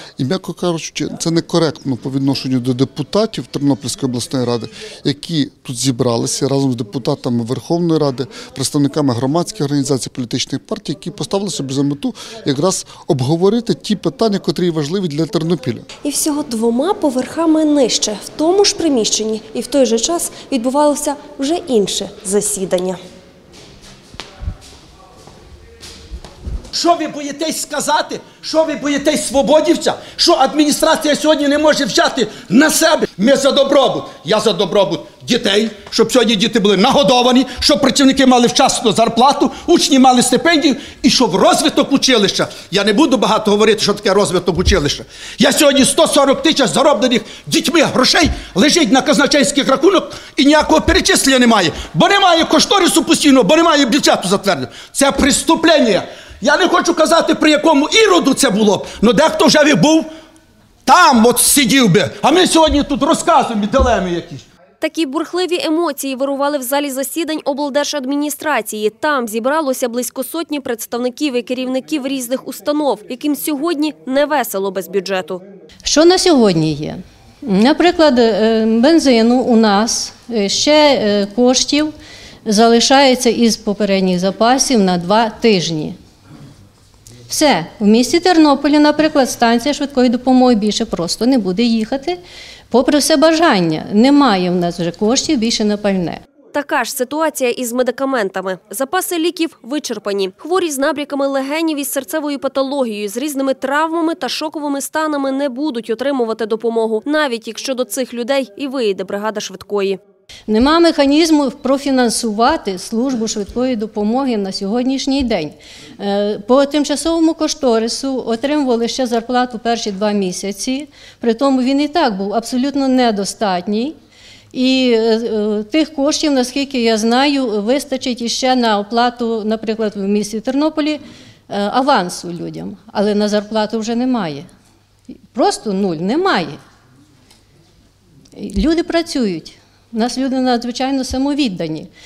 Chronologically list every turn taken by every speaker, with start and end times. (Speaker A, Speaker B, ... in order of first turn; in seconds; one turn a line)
Speaker A: 0.2-15.9
Speaker B: 16.0-23.0
Speaker C: 26.7-60.1
Speaker C: 60.9-64.4
Speaker B: 64.8-75.4
Speaker D: 75.8-81.9
Speaker D: 82.4-86.0
Speaker D: 87.3-92.2
Speaker D: 92.7-96.2
Speaker B: 96.5-110.0
Speaker D: 110.5-123.9
Speaker D: 124.5-134.5
Speaker D: 135.3-136.6
Speaker D: 138.3-141.9